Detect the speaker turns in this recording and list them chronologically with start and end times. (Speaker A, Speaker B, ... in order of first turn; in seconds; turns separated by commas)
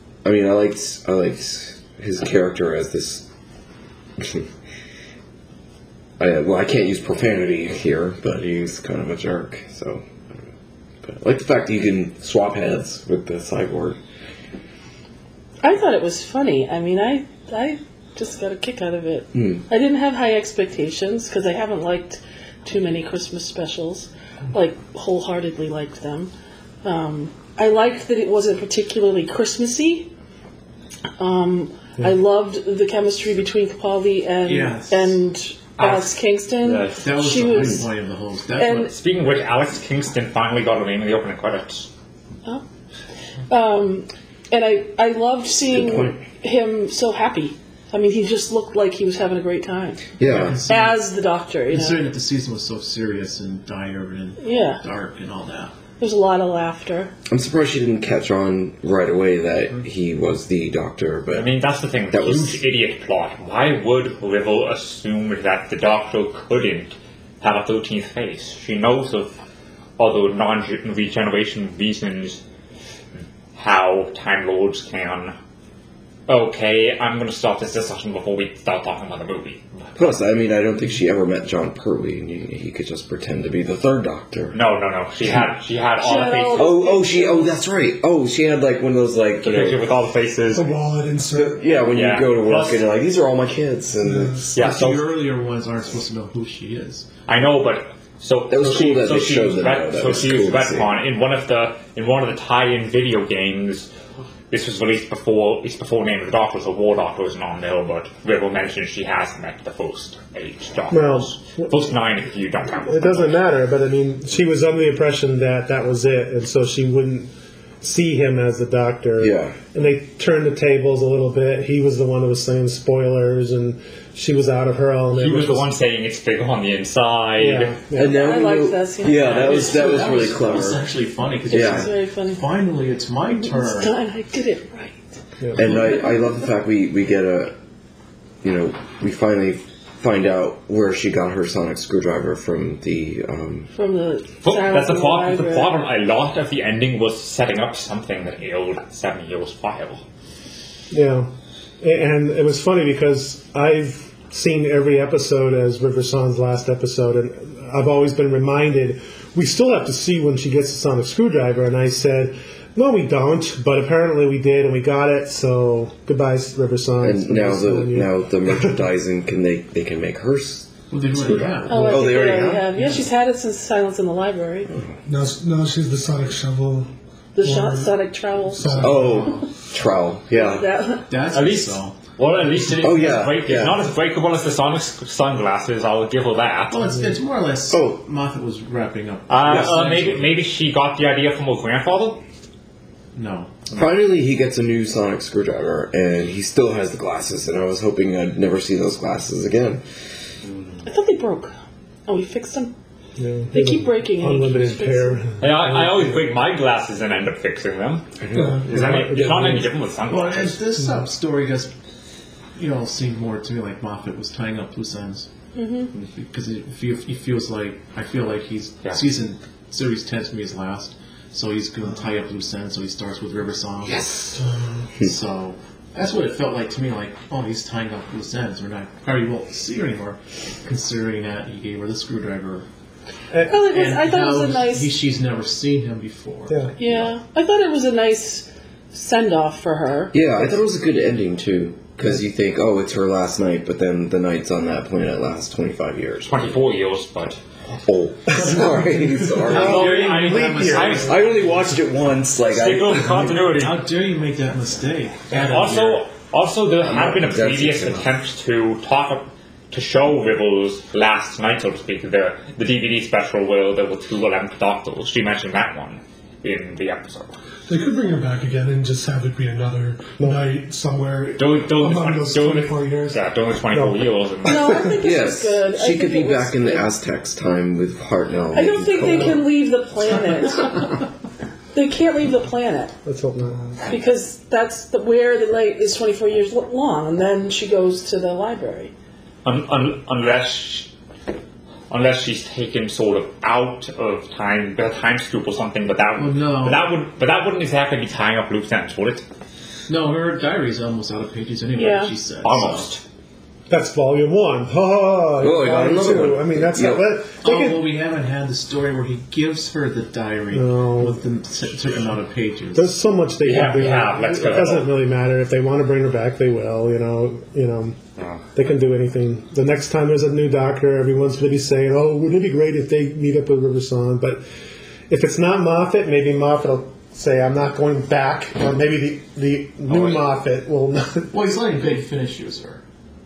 Speaker A: 0.2-3.3, Speaker A: 4.2-4.5, Speaker A: 6.2-10.4, Speaker A: 11.0-14.0, Speaker B: 15.6-26.3, Speaker A: 19.3-19.6, Speaker B: 26.8-30.1, Speaker B: 31.2-37.9, Speaker C: 34.5-35.2, Speaker D: 35.8-36.1, Speaker D: 36.6-37.1, Speaker C: 37.0-39.0, Speaker B: 38.6-38.9, Speaker D: 38.9-41.9, Speaker B: 43.5-50.0, Speaker A: 45.7-46.2, Speaker C: 50.2-51.1, Speaker A: 50.2-50.6, Speaker B: 50.7-52.0, Speaker C: 51.7-55.8, Speaker B: 54.4-54.8, Speaker B: 56.0-57.1, Speaker A: 57.3-61.5, Speaker D: 61.3-69.3, Speaker A: 62.1-62.6, Speaker D: 70.0-72.4, Speaker D: 73.5-75.3, Speaker D: 76.3-80.0, Speaker A: 80.0-84.6, Speaker D: 84.5-86.8, Speaker B: 86.0-87.6, Speaker A: 86.5-89.8, Speaker D: 89.4-90.7, Speaker E: 90.5-91.7, Speaker A: 91.3-94.6, Speaker D: 91.9-92.8, Speaker E: 94.0-94.5, Speaker D: 94.5-95.0, Speaker C: 94.6-97.1, Speaker D: 97.3-103.9, Speaker A: 98.5-100.9, Speaker D: 104.5-113.4, Speaker F: 110.9-111.7, Speaker F: 112.8-125.7, Speaker A: 119.2-119.6, Speaker D: 125.1-127.8, Speaker F: 127.4-128.4, Speaker A: 128.0-130.8, Speaker B: 128.1-130.1, Speaker C: 129.1-134.0, Speaker A: 131.5-131.9, Speaker B: 131.5-132.4, Speaker B: 133.4-135.1, Speaker F: 135.4-135.9, Speaker A: 135.6-137.6, Speaker A: 138.4-143.7, Speaker B: 143.7-145.7, Speaker D: 144.4-150.0, Speaker F: 150.9-151.3, Speaker F: 151.8-168.8, Speaker A: 167.0-172.7, Speaker C: 170.9-172.2, Speaker B: 171.7-174.7, Speaker C: 172.7-173.1, Speaker A: 174.7-174.9, Speaker E: 175.1-176.9, Speaker B: 177.3-179.3, Speaker E: 177.4-177.9, Speaker E: 178.5-179.3, Speaker C: 178.8-179.4, Speaker A: 178.8-180.7, Speaker B: 180.3-181.1, Speaker C: 181.1-182.0, Speaker D: 181.3-186.8, Speaker A: 182.8-183.9, Speaker C: 186.7-190.3, Speaker A: 187.7-188.0, Speaker D: 189.3-192.2, Speaker C: 193.2-193.7, Speaker A: 193.7-199.8, Speaker B: 200.8-201.5, Speaker B: 202.1-202.7, Speaker F: 203.2-206.3, Speaker B: 203.5-205.2, Speaker D: 205.4-210.6, Speaker A: 208.2-209.2, Speaker E: 208.3-208.7, Speaker F: 208.5-209.7, Speaker C: 210.1-211.7, Speaker C: 212.6-215.3, Speaker B: 215.5-215.9, Speaker C: 216.1-224.1, Speaker A: 224.0-224.4, Speaker C: 225.0-232.7, Speaker F: 233.3-233.6, Speaker B: 233.5-234.9, Speaker C: 233.6-236.7, Speaker B: 236.8-240.2, Speaker A: 240.1-246.3, Speaker D: 246.3-247.4, Speaker A: 247.8-249.9, Speaker C: 249.4-251.3, Speaker F: 249.4-251.2, Speaker D: 249.4-251.3, Speaker A: 251.1-253.5, Speaker D: 252.5-253.8, Speaker C: 253.3-256.1, Speaker D: 255.3-267.4, Speaker A: 256.8-258.1, Speaker E: 267.7-273.2, Speaker D: 271.4-275.0, Speaker F: 273.7-274.1, Speaker B: 274.4-276.9, Speaker A: 274.7-279.5, Speaker B: 278.5-280.9, Speaker B: 281.7-282.9, Speaker F: 283.1-283.8, Speaker B: 283.9-288.9, Speaker D: 289.4-290.9, Speaker D: 291.9-299.2, Speaker C: 296.2-296.9, Speaker C: 299.9-302.9, Speaker B: 301.8-302.1, Speaker D: 302.4-303.0, Speaker F: 303.7-307.9, Speaker A: 305.4-307.2, Speaker C: 307.4-312.9, Speaker F: 310.5-311.2, Speaker F: 312.8-318.0, Speaker D: 313.4-314.9, Speaker D: 318.2-318.4, Speaker F: 318.5-324.4, Speaker F: 325.1-331.3, Speaker D: 329.9-330.2, Speaker C: 331.3-332.8